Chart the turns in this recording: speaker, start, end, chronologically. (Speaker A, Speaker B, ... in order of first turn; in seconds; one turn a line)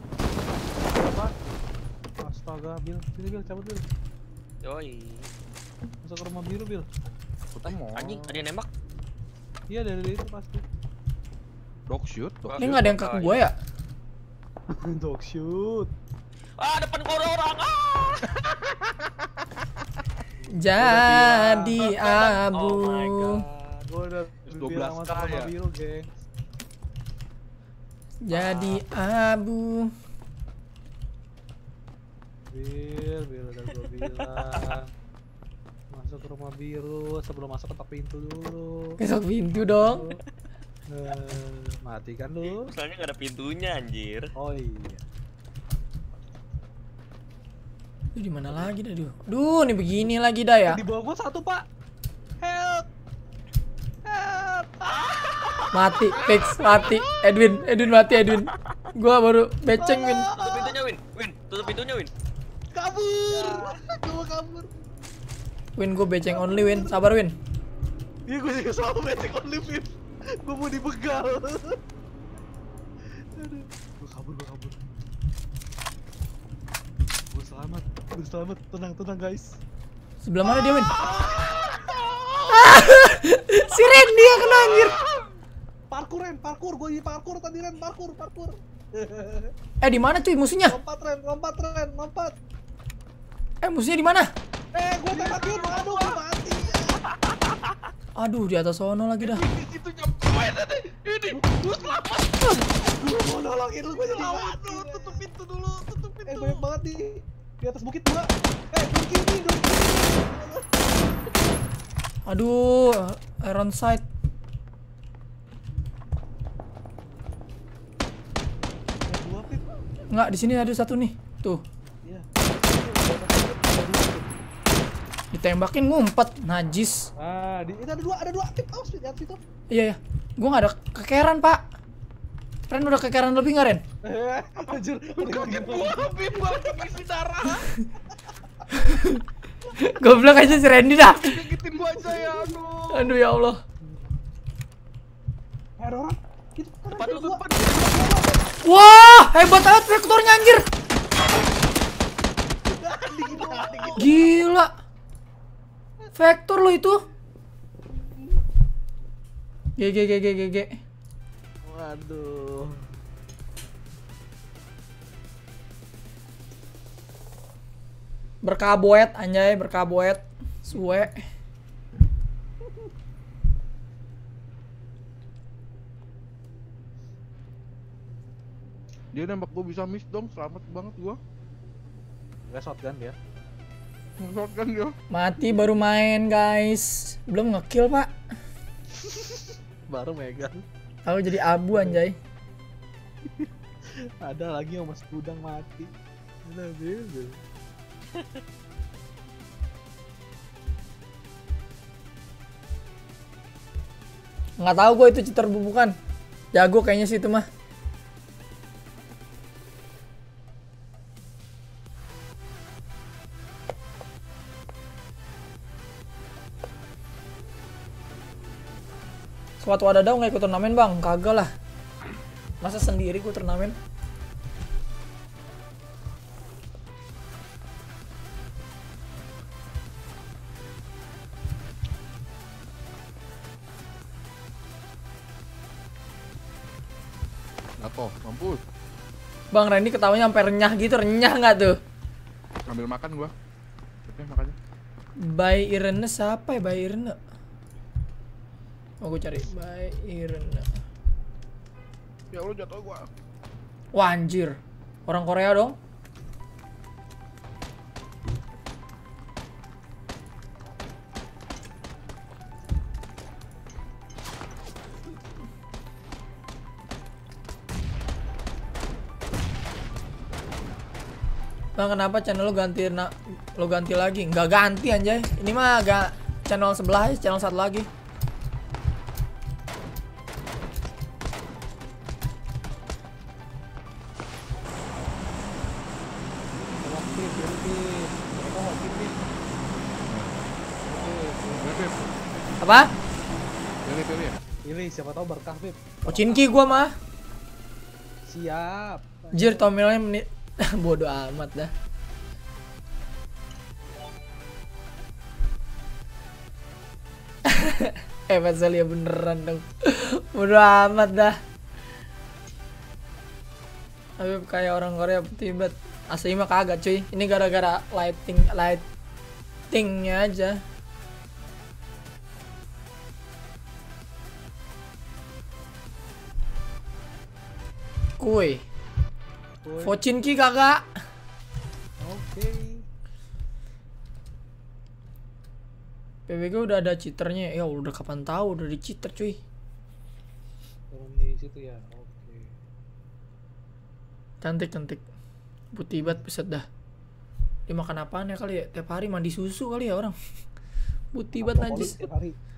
Speaker A: 0.9-1.4
Speaker A: 2.2-3.9
Speaker B: 4.6-5.3
Speaker A: 6.0-6.9
Speaker C: 7.5-8.4
Speaker B: 7.7-8.7
Speaker A: 9.7-10.6
Speaker C: 11.9-13.0
Speaker B: 12.5-13.4
Speaker D: 12.6-13.5
Speaker A: 14.7-15.9
Speaker B: 16.6-18.3
Speaker C: 18.3-19.4
Speaker A: 20.4-22.5
Speaker D: 20.6-23.4
Speaker B: 22.5-23.4
Speaker A: 23.5-26.1
Speaker C: 24.5-25.5
Speaker D: 28.2-29.9
Speaker B: 28.3-28.8
Speaker A: 32.5-34.9
Speaker B: 34.0-34.7
Speaker A: 35.9-39.0
Speaker D: 39.0-40.1
Speaker A: 39.6-40.2
Speaker A: 40.9-42.7
Speaker B: 42.5-44.3
Speaker A: 44.4-45.0
Speaker D: 48.2-50.8
Speaker A: 50.7-51.6
Speaker A: 52.4-52.9
Speaker A: 54.0-55.1
Speaker B: 54.9-57.0
Speaker D: 55.7-60.3
Speaker A: 59.8-60.8
Speaker B: 60.4-62.1
Speaker A: 62.8-64.7
Speaker D: 65.8-67.3
Speaker A: 66.2-67.0
Speaker A: 68.3-71.8
Speaker A: 73.3-74.9
Speaker A: 77.3-79.6
Speaker D: 80.2-80.9
Speaker A: 80.5-81.9
Speaker C: 81.1-82.7
Speaker D: 82.5-85.0
Speaker A: 85.9-89.5
Speaker D: 89.8-90.8
Speaker A: 90.7-92.3
Speaker D: 93.6-94.3
Speaker C: 94.8-96.2
Speaker A: 95.0-97.0
Speaker D: 98.2-99.5
Speaker C: 99.2-102.9
Speaker A: 101.3-102.0
Speaker A: 102.8-105.2
Speaker C: 103.9-106.6
Speaker A: 106.3-110.9
Speaker D: 112.3-114.0
Speaker A: 119.1-119.9
Speaker D: 120.1-121.6
Speaker A: 122.0-124.3
Speaker D: 125.3-127.1
Speaker A: 127.2-129.4
Speaker D: 129.7-131.6
Speaker D: 132.7-133.8
Speaker A: 134.0-136.9
Speaker C: 134.6-137.7
Speaker D: 138.7-139.2
Speaker D: 139.8-141.4
Speaker C: 141.0-143.2
Speaker A: 142.0-142.5
Speaker D: 142.9-143.6
Speaker A: 145.8-148.5
Speaker C: 147.0-148.2
Speaker B: 147.0-147.3
Speaker D: 148.6-150.7
Speaker A: 152.7-154.3
Speaker C: 153.4-154.0
Speaker D: 154.0-154.7
Speaker D: 156.2-157.0
Speaker D: 159.8-160.8
Speaker A: 161.7-162.9
Speaker D: 168.4-171.2
Speaker A: 170.7-171.1
Speaker C: 179.1-181.2
Speaker A: 182.5-183.2
Speaker C: 184.2-185.0
Speaker D: 185.1-188.1
Speaker A: 189.0-190.7
Speaker D: 191.1-192.2
Speaker A: 191.7-192.0
Speaker A: 194.2-195.9
Speaker A: 196.4-197.4
Speaker D: 204.6-206.0
Speaker D: 206.5-207.5
Speaker D: 219.6-221.5
Speaker D: 222.6-223.8
Speaker C: 237.8-238.6
Speaker D: 239.5-241.8
Speaker C: 242.7-243.3
Speaker C: 244.1-244.6
Speaker D: 245.2-247.2
Speaker D: 249.0-250.7
Speaker C: 252.3-253.1
Speaker D: 253.9-255.8
Speaker D: 271.8-277.9
Speaker A: 286.8-289.2
Speaker C: 290.1-290.3
Speaker A: 290.8-292.0
Speaker C: 291.5-292.0
Speaker D: 292.6-292.9
Speaker C: 293.9-294.4
Speaker A: 294.6-296.9
Speaker D: 296.1-296.9
Speaker A: 298.3-299.8
Speaker D: 299.3-301.7
Speaker D: 307.5-311.4
Speaker D: 314.2-318.9
Speaker D: 319.7-320.6
Speaker D: 328.2-328.6
Speaker A: 329.6-330.0
Speaker D: 329.8-330.9
Speaker A: 332.0-332.8
Speaker D: 336.3-339.4
Speaker A: 340.9-342.6
Speaker D: 344.4-345.0
Speaker D: 345.7-346.7
Speaker D: 347.7-350.1
Speaker D: 351.1-352.0
Speaker A: 351.4-352.4